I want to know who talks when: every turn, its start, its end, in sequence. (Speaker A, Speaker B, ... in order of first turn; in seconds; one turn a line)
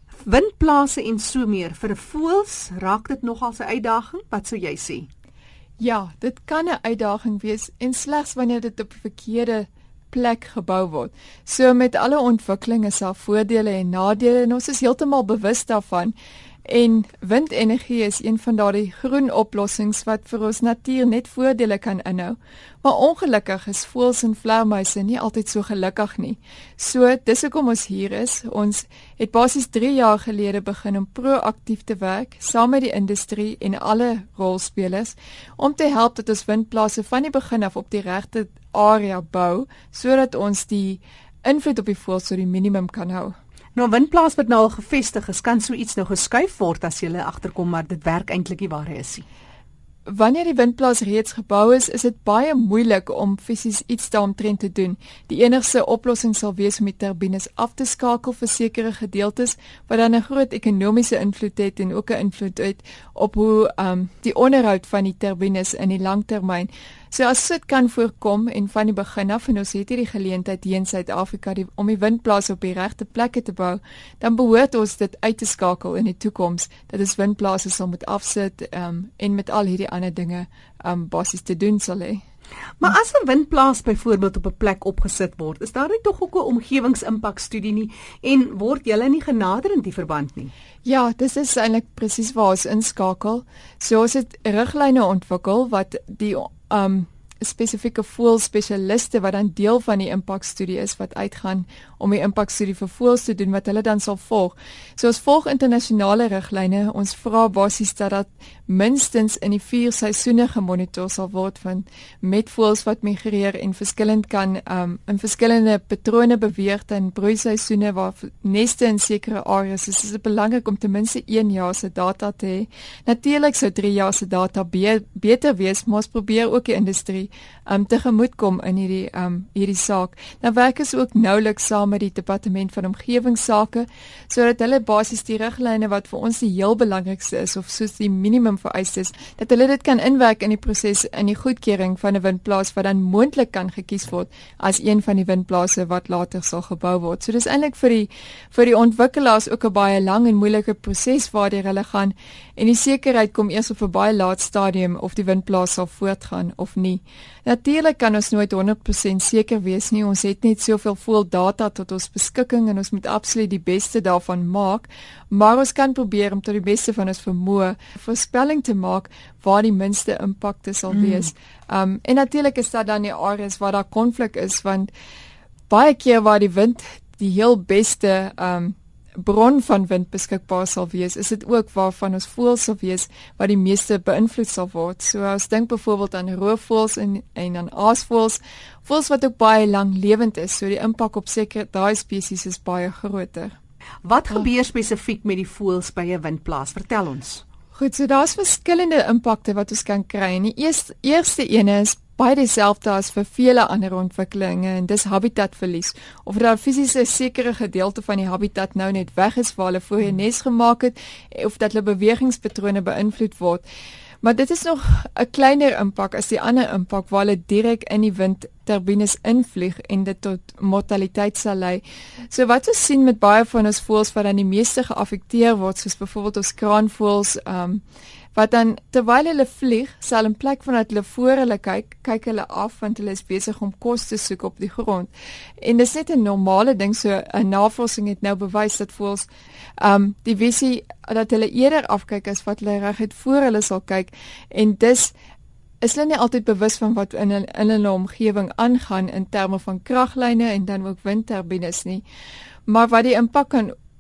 Speaker A: 0.2-5.1
Speaker B: 5.8-16.1
Speaker B: 16.7-43.3
Speaker A: 43.8-49.2
Speaker B: 50.1-82.2
Speaker A: 82.8-90.5
Speaker B: 90.8-174.9
Speaker A: 170.9-171.3
Speaker B: 175.7-193.6
Speaker A: 194.1-197.4
Speaker B: 197.8-213.7
Speaker B: 214.2-227.8
Speaker B: 228.3-245.1
Speaker B: 245.8-252.0
Speaker B: 252.7-253.7